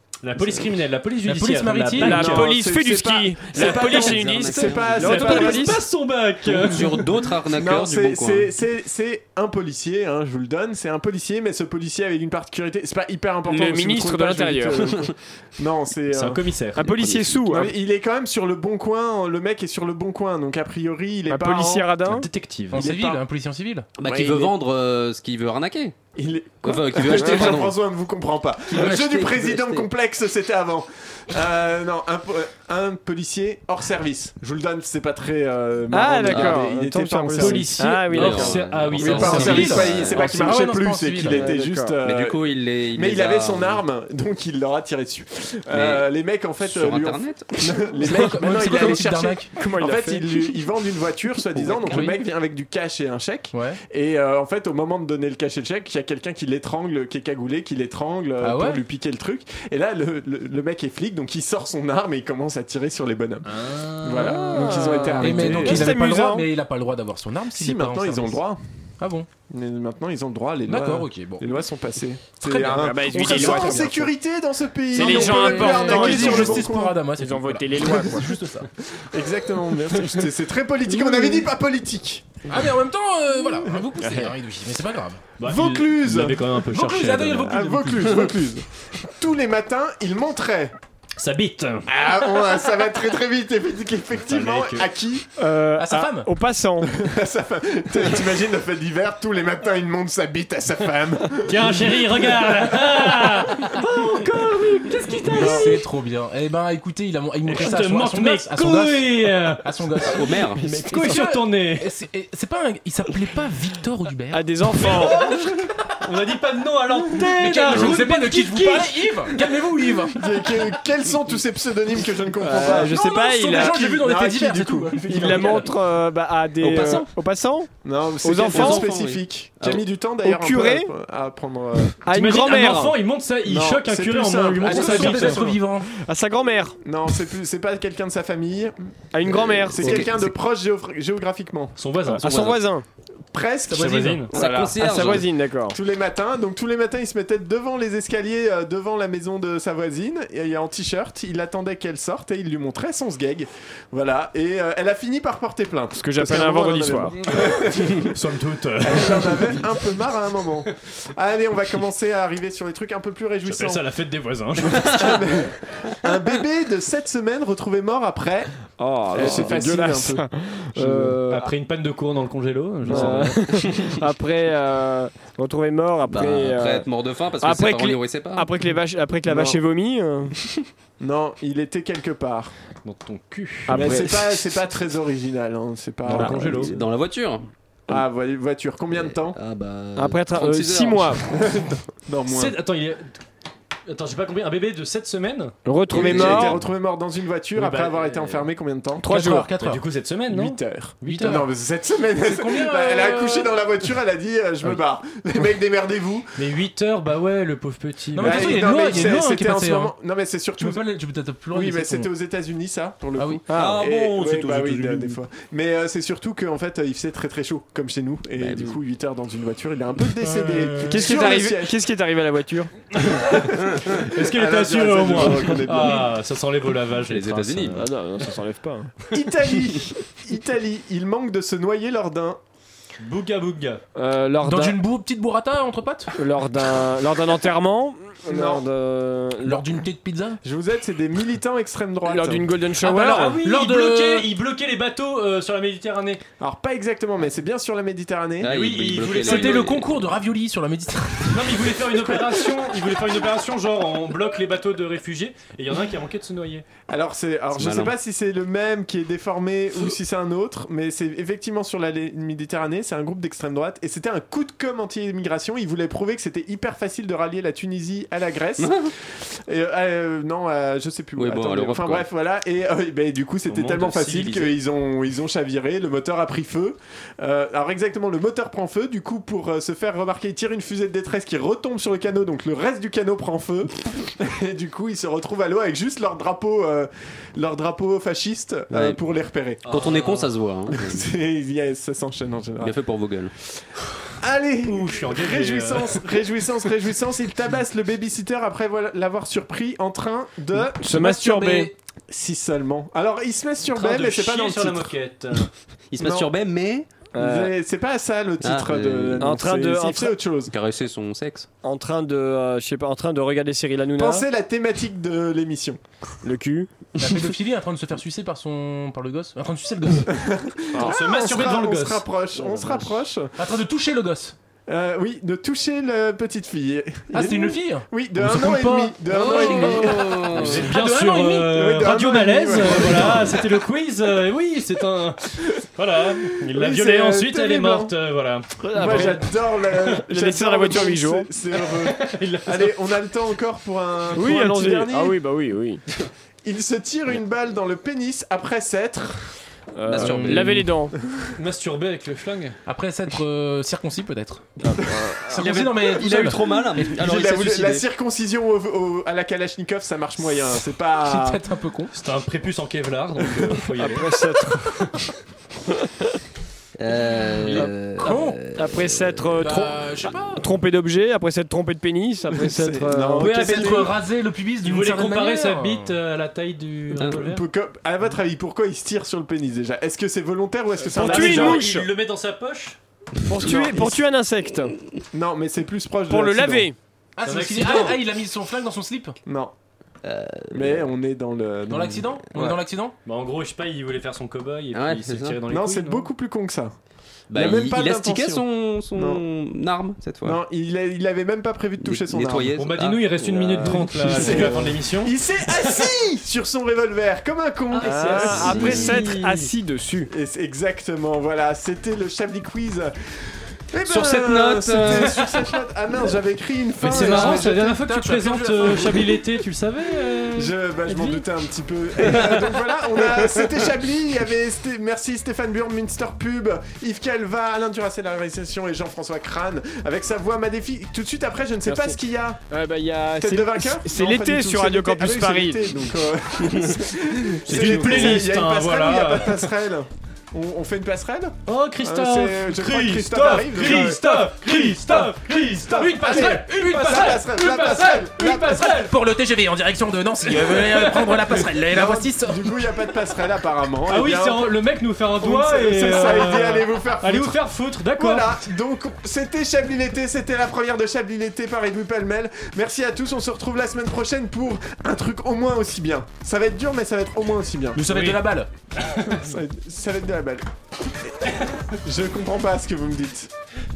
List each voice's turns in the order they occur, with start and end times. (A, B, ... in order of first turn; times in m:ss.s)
0:00.2-0:02.5 A
0:01.2-0:02.4 B
0:02.0-0:05.8 C
0:02.2-0:05.8 D
0:03.6-0:05.5 E
0:04.9-0:07.0 A
0:06.4-0:08.5 E
0:07.5-0:16.4 D
0:13.5-0:15.0 C
0:16.1-0:17.2 A
0:16.7-0:17.7 C
0:17.4-0:21.9 D
0:21.3-0:22.3 C
0:22.1-0:22.8 A
0:22.7-0:23.9 B
0:22.7-0:23.2 D
0:24.0-0:25.9 E
0:24.0-0:24.5 D
0:26.2-0:38.2 D
0:26.6-0:27.8 E
0:28.7-0:29.9 E
0:35.9-0:39.4 C
0:36.2-0:36.6 E
0:37.4-0:39.9 A
0:38.1-0:40.3 E
0:39.0-0:42.4 D
0:39.2-0:41.5 B
0:41.2-0:41.9 C
0:42.0-0:43.8 E
0:42.9-1:06.0 D
0:45.7-0:46.1 E
0:46.6-0:47.8 E
0:48.0-0:49.5 B
0:49.5-0:50.5 C
0:51.9-0:52.2 B
0:53.5-0:53.8 B
0:58.4-0:58.8 B
1:03.4-1:04.6 A
1:04.1-1:06.5 C
1:05.2-1:08.4 B
1:07.5-1:08.6 D
1:09.0-1:09.3 B
1:09.5-1:17.0 D
1:10.6-1:11.5 B
1:12.4-1:13.8 B
1:12.5-1:14.1 C
1:14.9-1:18.4 C
1:15.0-1:18.7 B
1:19.0-1:22.4 D
1:21.0-1:21.4 C
1:22.5-1:25.3 B
1:24.0-1:24.3 C
1:25.4-1:27.6 A
1:25.4-1:26.6 D
1:26.7-1:28.2 B
1:27.4-1:30.7 D
1:28.1-1:28.4 C
1:31.2-1:31.9 A
1:31.8-1:35.3 D
1:34.3-1:34.9 A
1:35.4-1:37.0 C
1:35.8-1:36.3 B
1:36.9-1:42.5 D
1:41.4-1:45.8 A
1:45.3-1:55.6 B
1:47.5-1:49.6 A
1:50.0-1:50.6 E
1:50.6-1:51.2 C
1:50.8-1:51.8 A
1:54.3-1:55.3 C
1:54.8-1:59.6 A
1:57.2-2:00.2 B
2:00.1-2:03.0 D
2:02.4-2:03.9 C
2:02.7-2:05.7 B
2:03.6-2:05.7 D
2:05.2-2:07.7 C
2:06.6-2:07.1 E
2:07.8-2:12.0 D
2:08.2-2:08.9 C
2:08.5-2:09.8 E
2:10.2-2:10.9 C
2:12.0-2:13.0 C
2:12.1-2:15.4 A
2:13.4-2:15.5 D
2:14.6-2:15.9 B
2:14.8-2:16.8 C
2:16.8-2:22.2 D
2:19.1-2:20.1 C
2:19.3-2:20.1 E
2:21.8-2:22.6 A
2:22.2-2:22.8 C
2:23.3-2:38.2 D
2:23.7-2:24.3 A
2:24.3-2:25.3 E
2:24.7-2:25.8 C
2:36.0-2:37.2 C
2:37.4-2:39.8 A
2:38.8-2:43.9 D
2:43.4-2:45.3 A
2:44.6-2:48.5 D
2:48.8-2:51.5 C
2:49.1-2:51.2 D
2:51.3-2:53.5 A
2:52.8-2:53.2 D
2:52.8-2:56.9 C
2:56.1-2:58.5 E
2:57.4-3:00.5 C
2:59.3-2:59.6 D
3:01.0-3:02.5 D
3:02.8-3:03.8 A
3:03.7-3:04.5 C
3:03.7-3:06.7 D
3:06.1-3:06.7 A
3:06.4-3:07.5 E
3:07.9-3:09.4 D
3:08.9-3:11.2 E
3:10.0-3:11.2 C
3:11.3-3:12.6 D
3:12.3-3:13.1 A
3:13.9-3:15.5 A
3:15.6-3:16.6 C
3:15.9-3:19.3 D
3:15.9-3:16.6 E
3:17.5-3:18.5 A
3:19.0-3:19.5 C
3:19.1-3:19.8 B
3:19.6-3:21.4 A
3:20.3-3:26.3 D
3:21.0-3:21.5 B
3:22.2-3:23.5 B
3:26.4-3:28.6 A
3:28.1-3:29.9 B
3:28.2-3:30.8 D
3:30.6-3:32.1 B
3:31.5-3:41.8 D
3:33.2-3:33.4 B
3:33.5-3:33.8 C
3:33.5-3:35.2 E
3:38.4-3:38.8 E
3:40.3-3:41.0 A
3:40.9-3:42.7 C
3:43.0-3:47.8 A
3:43.8-3:46.1 D
3:47.1-3:47.8 E
3:47.8-3:48.9 C
3:49.1-3:52.4 D
3:53.0-3:53.8 A
3:54.0-3:54.8 C
3:54.4-3:56.1 B
3:56.2-3:59.8 C
3:58.3-3:58.6 D
3:59.4-4:00.4 B
4:00.4-4:02.5 D
4:02.0-4:03.4 C
4:02.8-4:06.2 A
4:03.3-4:04.3 B
4:06.4-4:08.5 D
4:08.4-4:09.9 E
4:08.4-4:09.7 A
4:09.0-4:11.6 B
4:11.3-4:16.6 A
4:16.9-4:49.7 D
4:17.6-4:17.9 E
4:28.6-4:28.9 E
4:31.2-4:32.0 E
4:33.5-4:34.6 A
4:48.7-4:49.0 E
4:49.6-4:50.2 A
4:49.6-4:51.1 E
4:50.7-4:52.8 D
4:52.6-4:53.3 E
4:54.2-5:04.9 D
4:54.6-4:56.0 A
5:00.6-5:01.7 C
5:03.7-5:05.5 A
5:05.9-5:06.9 E
5:06.0-5:06.3 D
5:07.1-5:07.5 C
5:07.2-5:10.5 D
5:08.4-5:09.4 E
5:09.2-5:10.1 C
5:10.5-5:11.5 E
5:11.6-5:14.2 C
5:14.0-5:15.8 D
5:16.2-5:17.0 C
5:17.0-5:20.2 B
5:20.1-5:23.4 D
5:20.7-5:22.9 A
5:23.4-5:24.3 B
5:24.7-5:30.6 D
5:27.1-5:29.8 B
5:29.1-5:30.6 E
5:29.2-5:39.7 A
5:30.5-5:31.6 B
5:31.5-5:33.5 D
5:35.3-5:35.6 D
5:36.3-5:37.9 D
5:38.6-5:39.3 C
5:38.7-5:45.2 D
5:40.0-5:41.3 C
5:41.5-5:42.8 A
5:44.1-5:45.8 C
5:46.4-5:49.3 D
5:49.8-5:50.9 C
5:49.8-5:50.7 E
5:50.1-5:50.4 B
5:51.3-5:52.6 A
5:52.6-5:54.5 B
5:54.6-5:55.4 C
5:55.2-5:56.6 B
5:55.4-5:57.8 E
5:56.8-6:01.4 D
6:01.0-6:01.9 B
6:01.9-6:04.2 A
6:03.8-6:04.8 C
6:06.8-6:09.4 E
6:08.0-6:08.5 B
6:08.5-6:13.4 C
6:09.4-6:10.4 B
6:12.3-6:13.9 D
6:13.2-6:13.9 A
6:13.2-6:15.9 B
6:14.6-6:17.4 A
6:17.1-6:21.7 D
6:20.8-6:21.9 C
6:21.0-6:22.8 A
6:23.3-6:24.7 C
6:23.4-6:24.0 D
6:25.1-6:26.7 D
6:26.1-6:26.8 C
6:27.2-6:29.2 B
6:27.2-6:28.0 A
6:29.2-6:29.5 D
6:30.0-6:30.9 E
6:30.5-6:32.5 D
6:31.7-6:32.9 B
6:33.0-6:36.1 A
6:34.7-6:35.4 E
6:35.5-6:36.7 D
6:37.3-6:40.4 E
6:37.3-6:39.2 D
6:40.2-6:42.6 D
6:41.8-6:44.4 E
6:42.6-6:45.2 A
6:43.6-6:49.0 D
6:47.7-6:49.5 A
6:47.8-6:50.1 C
6:48.3-6:49.0 E
6:50.1-6:52.9 D
6:53.6-6:57.8 D
6:53.8-6:55.3 E
6:56.8-6:59.1 B
6:56.8-7:01.2 A
6:58.8-6:59.0 D
7:00.3-7:12.4 D
7:11.6-7:12.0 C
7:12.5-7:15.6 C
7:13.2-7:28.9 D
7:16.4-7:16.7 E
7:17.4-7:19.5 A
7:21.4-7:28.9 A
7:24.8-7:25.1 B
7:25.7-7:32.5 B
7:30.2-7:31.4 A
7:31.7-7:34.5 D
7:33.9-7:38.4 A
7:35.2-7:47.8 D
7:47.7-7:48.5 B
7:47.8-7:48.2 A
7:48.8-7:49.2 A
7:49.0-7:50.5 D
7:51.0-7:53.3 D